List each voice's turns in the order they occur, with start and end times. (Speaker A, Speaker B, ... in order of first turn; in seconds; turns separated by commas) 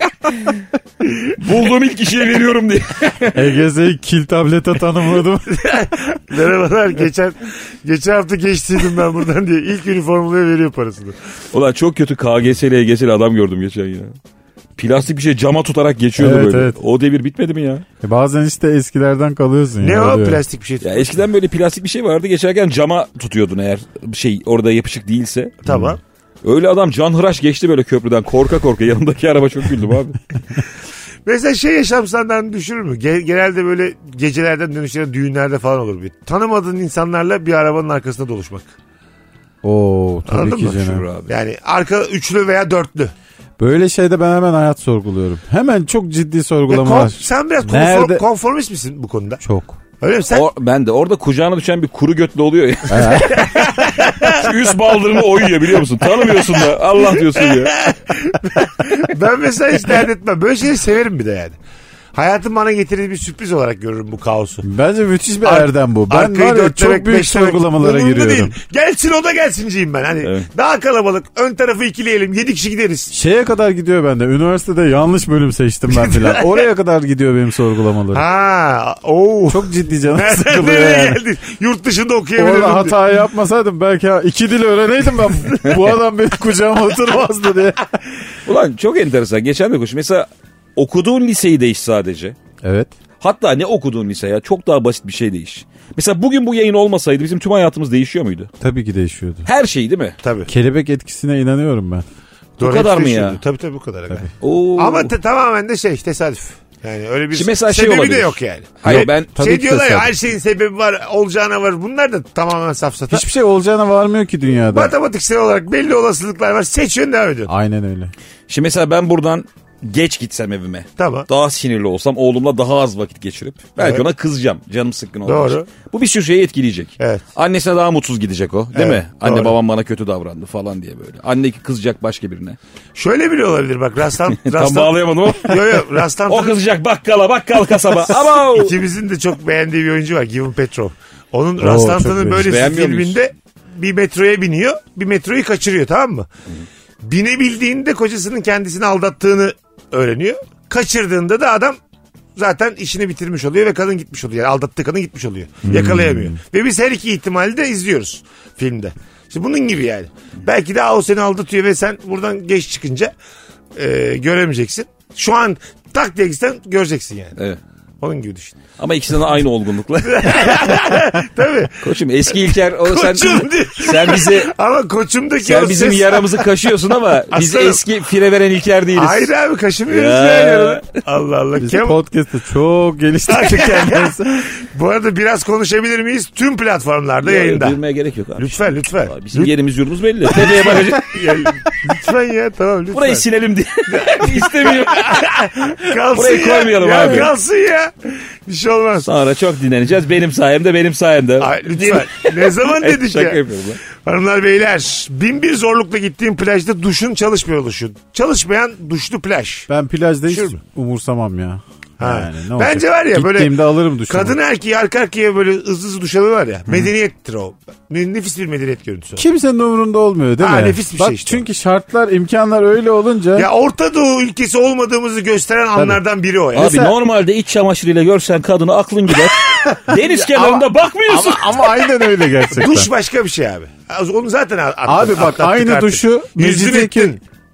Speaker A: 1.4-3.5, Speaker B: 3.3-5.6, Speaker C: 5.5-11.1, Speaker A: 11.5-14.2, Speaker A: 14.8-17.8, Speaker B: 16.2-16.8, Speaker B: 18.0-20.4, Speaker C: 19.8-21.2, Speaker A: 20.8-25.5, Speaker C: 25.6-26.0, Speaker B: 25.7-25.9, Speaker A: 26.4-30.2, Speaker C: 31.2-38.7, Speaker B: 39.6-41.0, Speaker C: 40.3-43.1, Speaker A: 40.8-41.3, Speaker B: 43.6-48.2, Speaker C: 46.7-49.4, Speaker B: 49.4-49.8, Speaker C: 50.0-50.5, Speaker A: 50.3-53.7, Speaker B: 52.9-53.5, Speaker C: 53.3-54.4, Speaker A: 54.2-57.8, Speaker C: 56.2-61.5, Speaker C: 62.1-64.6, Speaker B: 64.6-68.5, Speaker C: 65.4-73.1, Speaker A: 70.2-70.5, Speaker B: 73.1-78.2, Speaker C: 75.9-76.6, Speaker C: 78.1-83.0, Speaker B: 79.5-81.2, Speaker B: 82.4-87.8, Speaker A: 88.5-92.3, Speaker B: 92.6-92.9, Speaker A: 93.2-98.5, Speaker B: 98.6-99.5, Speaker A: 99.5-100.2, Speaker C: 100.2-100.5, Speaker B: 100.5-102.0, Speaker C: 102.6-113.2, Speaker A: 102.6-103.4, Speaker A: 104.4-105.1, Speaker A: 107.3-109.3, Speaker B: 108.8-110.1, Speaker B: 113.1-114.9, Speaker C: 114.7-117.5, Speaker B: 117.5-118.1, Speaker A: 118.5-132.6, Speaker C: 121.0-121.3, Speaker C: 123.8-124.0, Speaker C: 125.2-125.7, Speaker C: 127.0-127.2, Speaker C: 128.7-129.5, Speaker C: 132.9-136.6, Speaker A: 134.4-138.8, Speaker C: 137.8-146.3, Speaker B: 141.6-142.4, Speaker A: 142.3-143.2, Speaker C: 147.0-151.8, Speaker C: 152.3-163.1, Speaker A: 155.7-156.0, Speaker B: 155.7-156.3, Speaker C: 163.7-167.4, Speaker C: 168.0-168.6, Speaker A: 168.8-170.8, Speaker C: 170.0-176.5, Speaker A: 171.8-174.5, Speaker A: 175.4-179.3, Speaker C: 177.3-177.8, Speaker C: 178.9-182.0, Speaker A: 179.9-181.0, Speaker B: 181.6-184.4, Speaker C: 183.3-187.8, Speaker A: 187.2-191.3, Speaker C: 188.3-189.5, Speaker C: 190.4-193.2, Speaker A: 192.9-197.3, Speaker C: 193.9-199.1, Speaker A: 199.0-203.8, Speaker C: 201.4-203.4, Speaker C: 203.9-209.7, Speaker B: 209.7-214.4, Speaker C: 210.3-210.6, Speaker C: 212.0-213.6, Speaker C: 214.1-219.2, Speaker B: 219.2-223.5, Speaker C: 220.4-221.4, Speaker C: 223.3-226.8, Speaker A: 226.5-231.6, Speaker B: 226.6-226.9, Speaker B: 230.3-232.9, Speaker C: 232.5-237.2, Speaker B: 234.9-237.2